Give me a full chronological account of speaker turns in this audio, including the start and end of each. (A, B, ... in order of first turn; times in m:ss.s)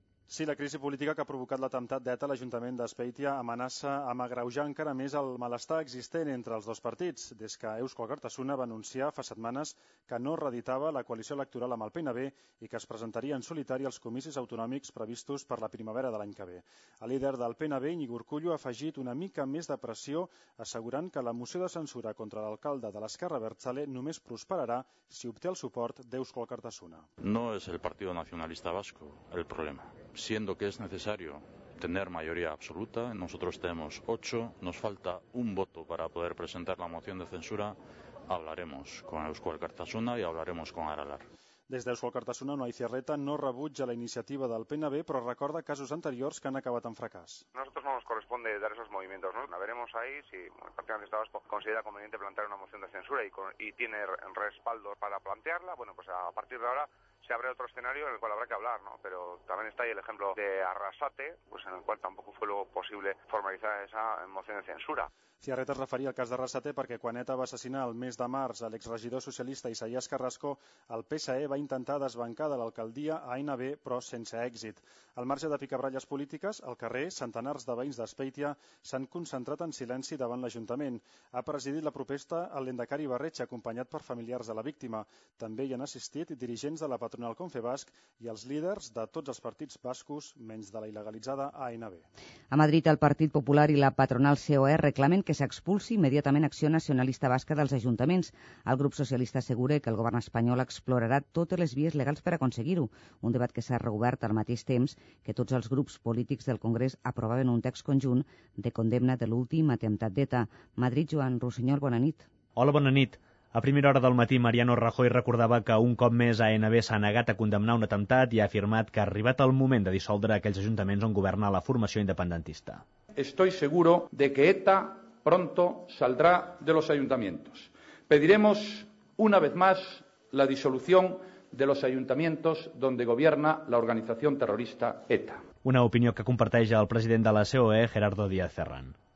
0:00.3-0:27.1 A
0:27.2-0:41.2 B
0:41.7-0:47.4 A
0:47.5-1:05.1 C
1:05.4-1:32.0 A
1:32.5-1:52.3 D
1:52.6-2:02.8 E
2:03.2-2:15.4 F
2:15.6-2:19.0 E